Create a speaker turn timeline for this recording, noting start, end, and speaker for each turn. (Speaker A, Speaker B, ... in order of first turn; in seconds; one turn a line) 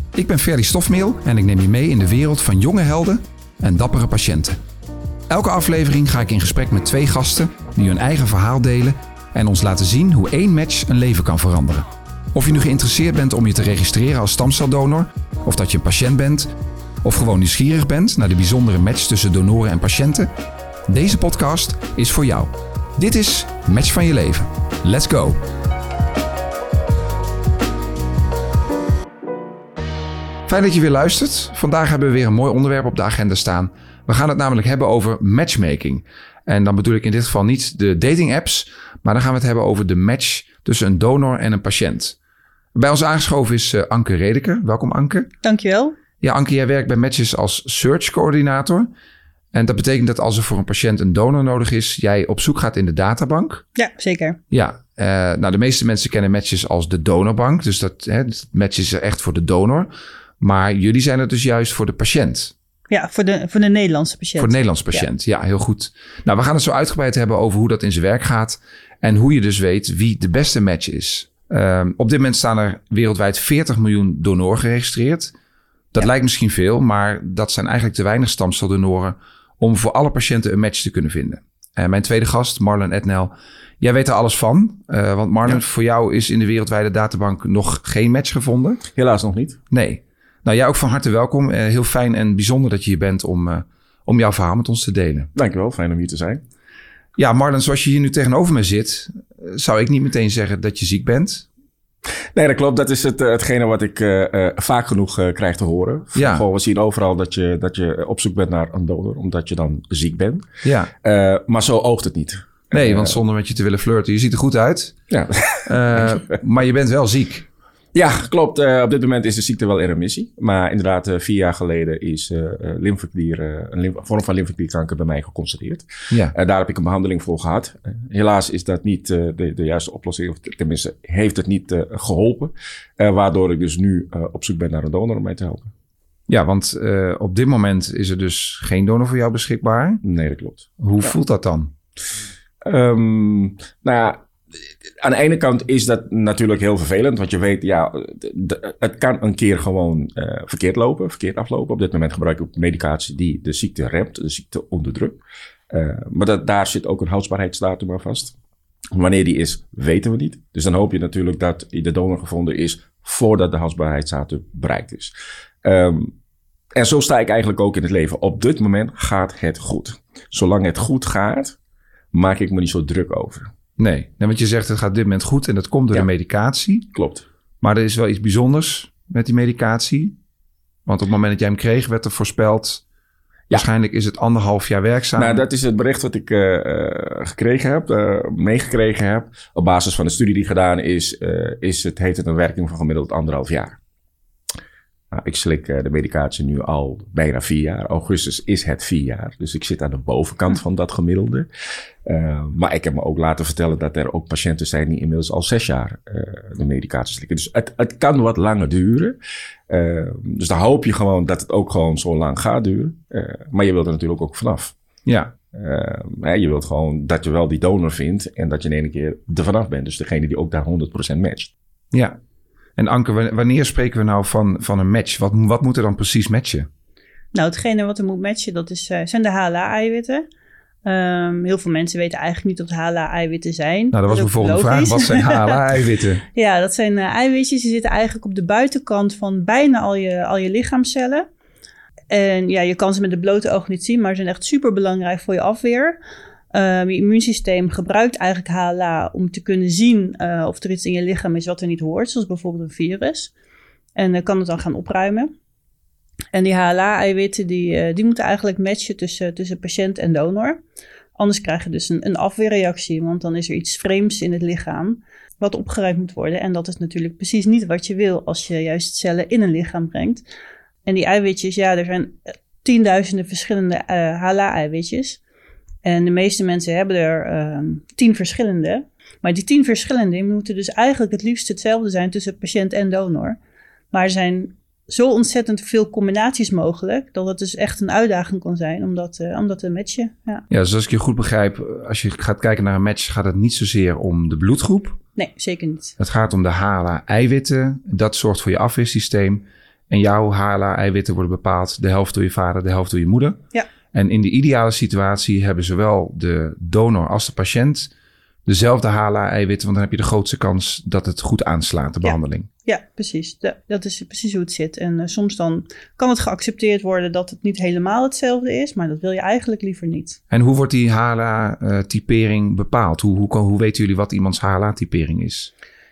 Speaker A: 0.1-4.6
Speaker A: 5.3-16.5
Speaker A: 17.0-20.3
Speaker A: 20.9-25.4
Speaker A: 30.5-42.1
Speaker A: 42.7-45.3
Speaker B: 45.4-46.0
Speaker A: 46.2-48.9
Speaker A: 49.5-53.6
Speaker B: 53.8-54.4
Speaker A: 54.5-62.5
Speaker B: 62.9-65.1
Speaker A: 64.4-75.3
Speaker A: 75.9-88.8
Speaker C: 88.9-89.6
Speaker A: 89.7-95.3
Speaker C: 95.3-96.4
Speaker A: 97.2-101.5
Speaker C: 102.3-110.5
Speaker A: 106.2-106.4
Speaker A: 110.6-110.9
Speaker C: 111.0-113.2
Speaker A: 112.7-115.0
Speaker C: 115.1-116.3
Speaker A: 115.7-117.5
Speaker C: 117.9-135.7
Speaker A: 136.3-140.0
Speaker C: 140.0-141.2
Speaker A: 140.8-141.7
Speaker C: 142.6-144.2
Speaker C: 145.0-158.3
Speaker C: 158.9-166.1
Speaker C: 166.7-171.6
Speaker C: 172.1-173.5
Speaker A: 173.8-176.9
Speaker C: 176.9-177.2
Speaker A: 177.6-180.2
Speaker A: 180.8-182.8
Speaker A: 183.5-185.4
Speaker C: 185.2-193.8
Speaker C: 195.1-201.5
Speaker C: 202.0-209.2
Speaker C: 209.7-214.7
Speaker A: 215.1-215.3
Speaker C: 215.5-221.5
Speaker A: 221.9-222.2
Speaker A: 222.8-226.7
Speaker B: 227.3-230.2
Speaker B: 230.8-235.6
Speaker A: 233.9-236.2
Speaker B: 236.3-241.2
Speaker B: 242.1-246.0
Speaker B: 246.5-253.3
Speaker B: 253.9-255.3
Speaker B: 256.3-260.6
Speaker B: 261.1-270.2
Speaker B: 270.9-275.2
Speaker B: 275.8-283.4
Speaker B: 283.9-290.4
Speaker A: 290.5-295.0
Speaker B: 295.2-295.9
Speaker A: 296.0-303.4
Speaker A: 303.9-307.9
Speaker A: 308.4-312.5
Speaker B: 312.0-320.2
Speaker A: 320.3-325.5